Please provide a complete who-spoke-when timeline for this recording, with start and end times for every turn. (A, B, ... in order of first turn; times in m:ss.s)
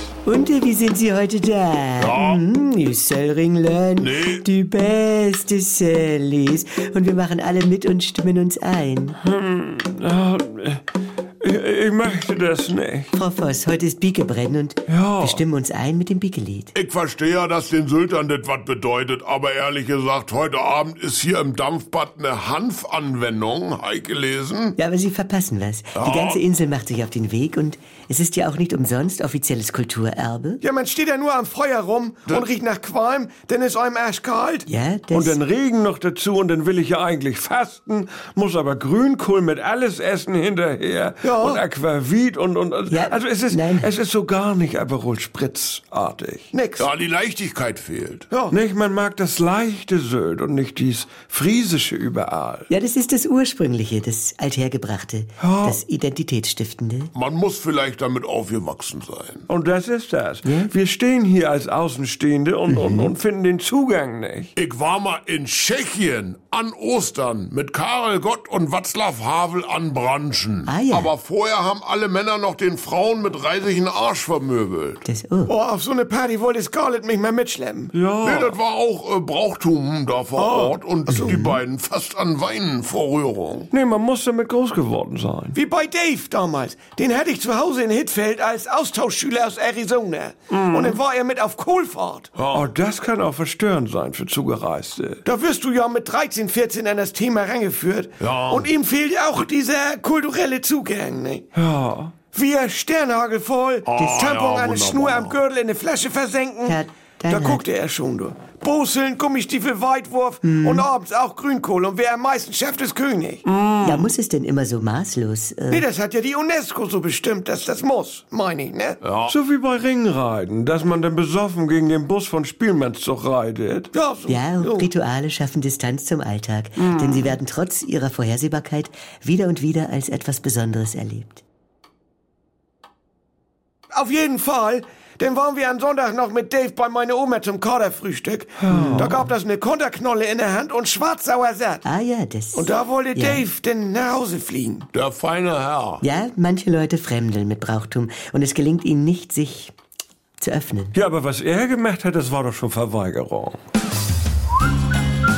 0:00.2-0:09.2 A
0:02.0-0:02.4 B
0:04.0-0:04.4 B
0:09.2-0:10.8 C
0:11.4-0:13.1 C
0:13.1-0:16.7 A
0:14.9-0:15.4 C
0:16.7-0:24.8 B
0:24.8-0:30.6 A
0:26.0-0:26.4 B
0:30.6-0:34.7 D
0:34.7-0:35.4 A
0:35.1-0:46.5 C
0:41.2-0:41.6 D
0:42.9-0:43.9 A
0:46.5-0:46.9 D
0:46.8-0:48.3 B
0:48.3-0:48.6 D
0:48.5-0:52.7 C
0:52.7-0:57.1 A
0:55.4-0:55.8 C
0:57.1-0:59.5 B
0:59.5-1:04.5 C
1:00.4-1:00.7 A
1:02.7-1:03.1 A
1:04.6-1:15.0 B
1:10.6-1:11.1 A
1:15.0-1:15.5 A
1:15.5-1:17.9 D
1:17.9-1:18.6 C
1:18.2-1:23.7 B
1:20.4-1:21.4 D
1:21.1-1:21.6 A
1:23.7-1:25.6 C
1:25.5-1:32.3 D
1:30.5-1:31.0 C
1:32.4-1:32.7 B
1:32.5-1:35.2 C
1:35.2-1:41.4 D
1:38.2-1:38.7 B
1:41.5-1:42.1 C
1:42.3-1:53.4 D
1:43.8-1:45.4 B
1:46.6-1:47.6 A
1:50.4-1:50.9 A
1:53.4-1:54.1 C
1:53.8-1:55.8 A
1:55.7-1:59.0 D
1:59.0-1:59.4 B
1:59.3-2:03.9 C
2:03.9-2:04.9 D
2:04.3-2:11.4 A
2:13.9-2:21.8 D
2:18.6-2:19.2 C
2:18.7-2:19.2 A
2:21.8-2:23.4 A
2:22.5-2:24.9 D
2:24.9-2:26.0 B
2:26.0-2:29.7 A
2:30.4-2:31.0 A
2:30.9-2:33.6 C